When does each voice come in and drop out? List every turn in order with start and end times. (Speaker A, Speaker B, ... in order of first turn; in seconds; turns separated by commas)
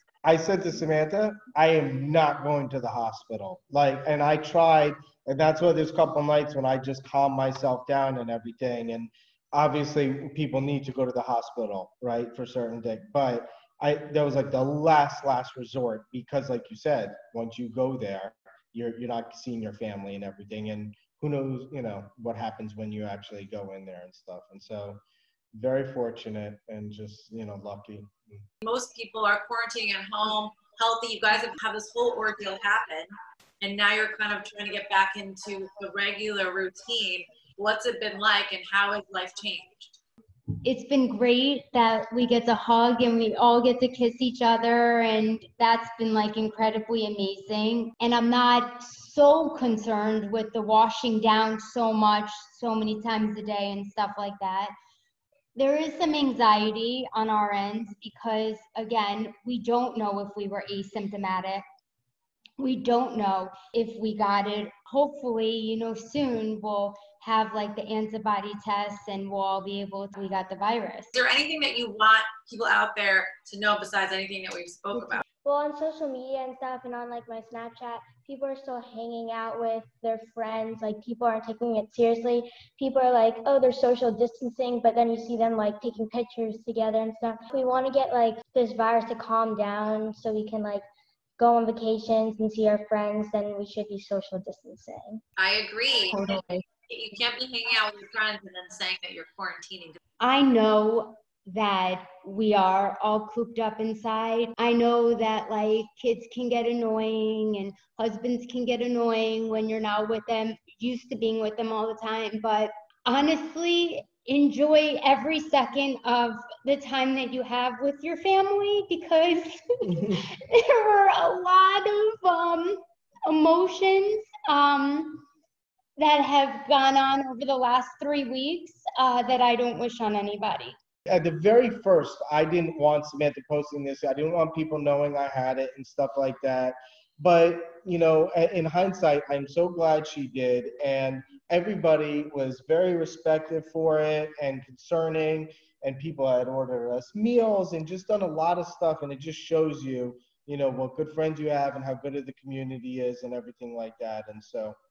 Speaker A: 0.2-25.0, Speaker A: 25.5-28.4, Speaker B: 28.6-40.0, Speaker C: 40.6-54.7, Speaker C: 55.5-61.6, Speaker C: 62.6-71.1, Speaker B: 71.1-75.2, Speaker D: 75.4-90.9, Speaker D: 91.4-95.2, Speaker B: 95.4-100.0, Speaker C: 100.2-125.2, Speaker C: 126.0-130.7, Speaker A: 131.1-154.8